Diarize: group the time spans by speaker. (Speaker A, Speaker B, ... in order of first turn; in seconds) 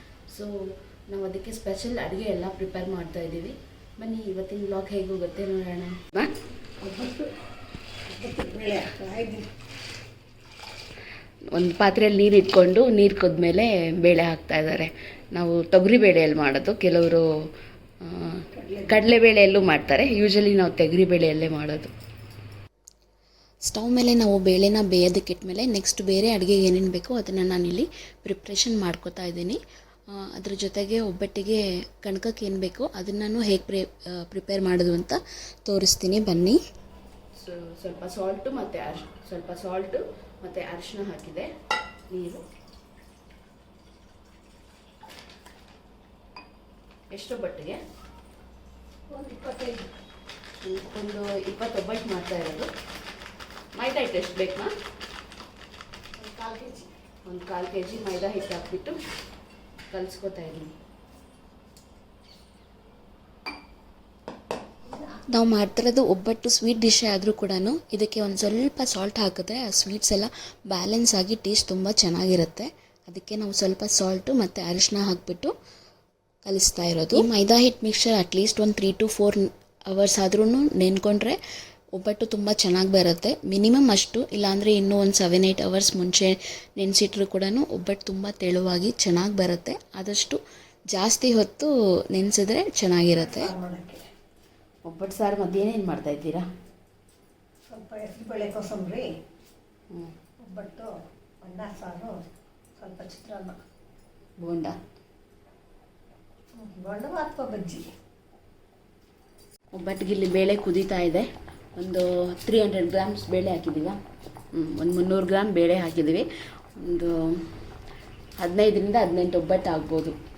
Speaker A: 1.1-1.9, 2.6-3.5, 5.1-5.9, 23.7-29.6, 30.1-36.6, 65.3-75.5, 76.5-81.4, 82.0-90.4, 90.9-93.5
Speaker B: 1.1-3.5, 4.0-6.2, 11.6-17.2, 18.9-21.9, 37.4-41.5, 42.1-42.4, 47.1-47.8, 50.6-52.7, 53.8-54.7, 57.3-59.0, 59.9-60.7, 77.3-77.5, 94.9-96.4, 104.4-104.7, 109.8-111.2, 111.8-113.9, 114.6-116.2, 116.8-117.1, 118.4-120.1
Speaker C: 6.8-7.3, 8.1-9.4, 18.5-19.1, 49.1-49.9, 56.2-56.9, 93.2-94.0, 97.7-99.1, 100.4-100.9, 101.4-102.2, 102.8-103.6, 106.6-107.8